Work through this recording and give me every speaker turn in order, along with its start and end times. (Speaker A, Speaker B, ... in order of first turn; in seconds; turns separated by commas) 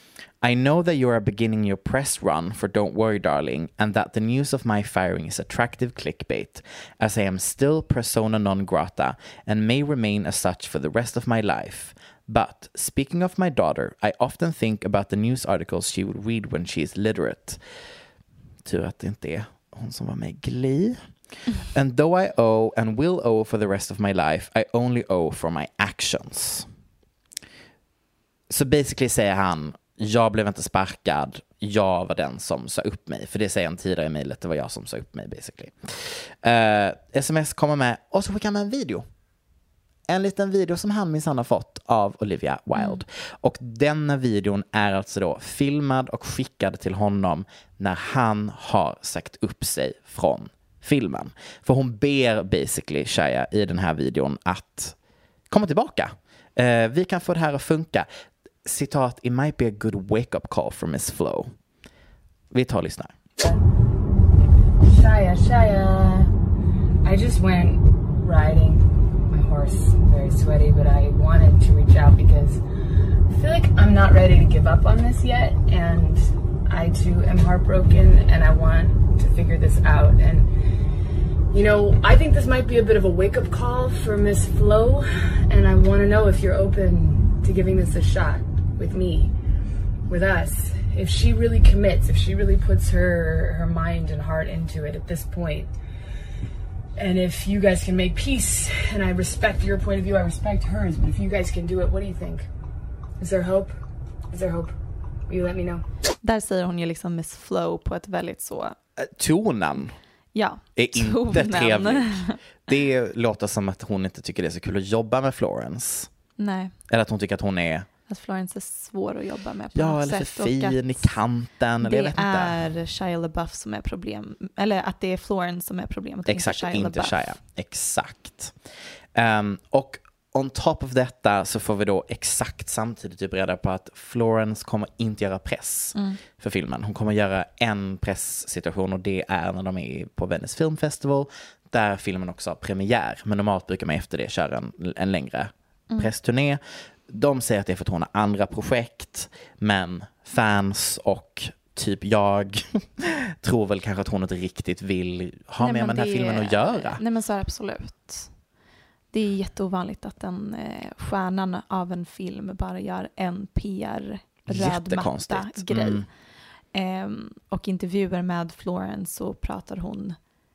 Speaker A: 0.4-17.6, Speaker A: 18.6-21.0, Speaker A: 21.7-26.7, Speaker A: 28.5-39.0, Speaker A: 40.1-55.0, Speaker B: 42.8-43.0, Speaker A: 55.5-58.1, Speaker A: 58.6-61.5, Speaker A: 62.5-63.1, Speaker C: 64.9-66.3, Speaker C: 67.0-72.6, Speaker C: 73.3-80.5, Speaker C: 81.5-89.3, Speaker C: 90.1-95.7, Speaker C: 97.0-102.5, Speaker C: 103.2-103.8, Speaker C: 104.3-104.7, Speaker C: 105.3-105.8, Speaker B: 106.2-108.8, Speaker A: 109.0-110.0, Speaker B: 110.3-112.4, Speaker A: 110.8-116.1, Speaker B: 116.4-116.7, Speaker A: 116.9-117.9, Speaker B: 118.1-121.1, Speaker A: 119.8-122.6, Speaker B: 121.8-127.2, Speaker A: 126.3-128.6, Speaker A: 129.2-157.0, Speaker B: 155.6-158.3, Speaker B: 159.1-166.1, Speaker A: 164.5-166.1, Speaker B: 166.7-170.2